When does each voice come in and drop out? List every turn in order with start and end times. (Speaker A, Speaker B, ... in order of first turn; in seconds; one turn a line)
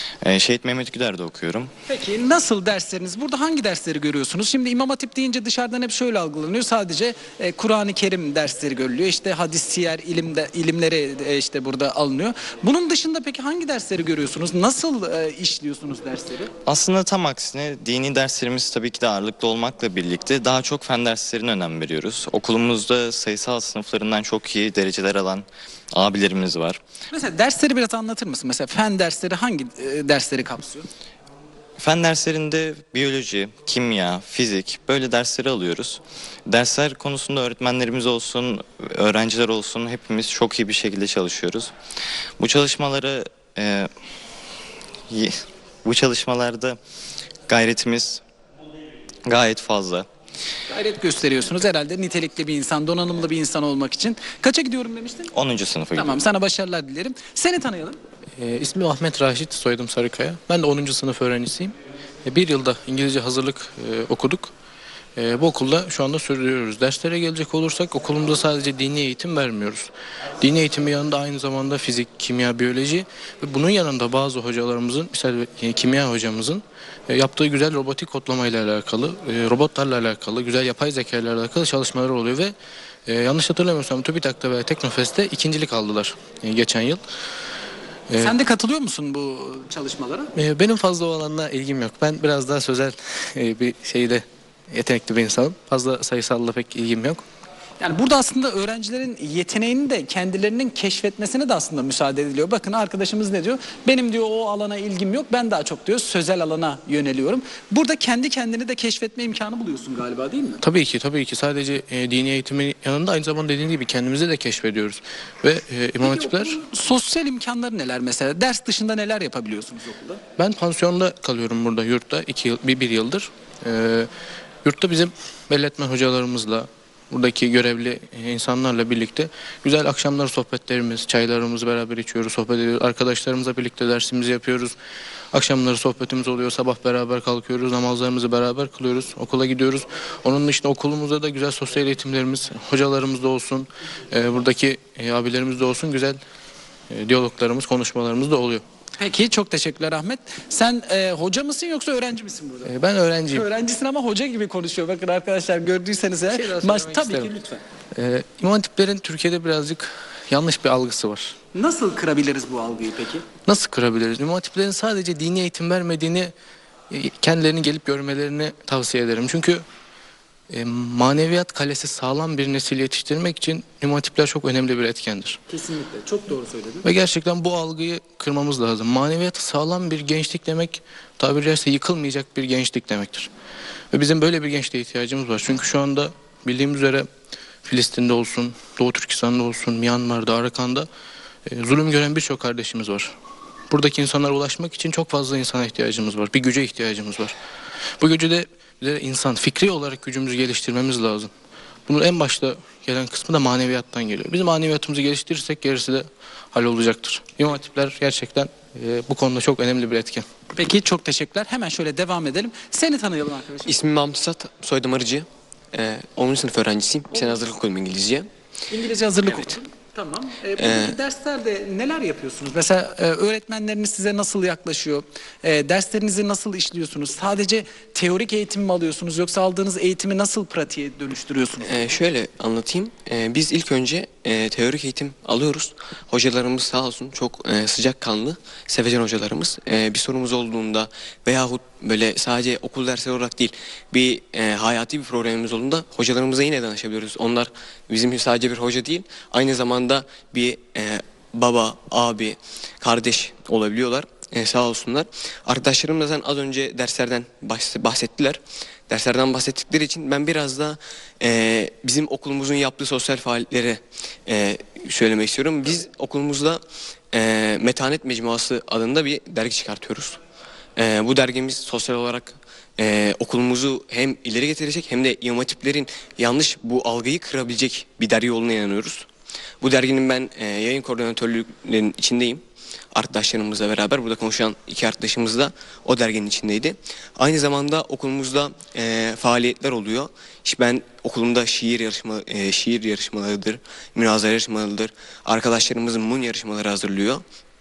Speaker A: 0.2-1.7
Speaker B: 1.9-16.5
Speaker A: 16.6-26.8
Speaker B: 27.1-30.9
Speaker A: 31.8-41.7
Speaker A: 42.4-43.9
Speaker A: 45.1-46.8
Speaker A: 47.5-48.2
Speaker A: 49.3-50.1
Speaker B: 50.7-55.3
Speaker A: 55.3-56.2
Speaker B: 55.9-58.0
Speaker C: 58.4-64.5
Speaker C: 65.2-69.9
Speaker C: 70.4-82.5
Speaker C: 83.1-87.0
Speaker B: 88.2-90.3
Speaker C: 90.3-97.2
Speaker B: 97.8-110.6
Speaker C: 110.6-116.5
Speaker B: 116.0-120.2
Speaker C: 120.4-124.1
Speaker C: 124.6-134.7
Speaker C: 135.3-146.2
Speaker C: 146.9-148.6
Speaker B: 149.0-152.7
Speaker C: 152.7-153.5
Speaker B: 153.3-157.6
Speaker C: 156.3-157.3
Speaker C: 157.9-161.3
Speaker B: 161.5-163.2
Speaker C: 163.5-166.3
Speaker C: 166.9-169.6
Speaker C: 170.5-175.4
Speaker B: 175.5-176.9
Speaker C: 176.8-183.3
Speaker C: 183.9-187.1
Speaker C: 187.7-190.9
Speaker C: 191.5-193.1
Speaker C: 193.7-197.3
Speaker C: 198.0-201.3
Speaker C: 201.9-210.2
Speaker B: 210.5-213.7
Speaker D: 213.7-218.3
Speaker B: 218.7-231.8
Speaker D: 220.6-220.9
Speaker D: 231.6-270.2
Speaker D: 270.8-279.1
Speaker D: 279.6-297.2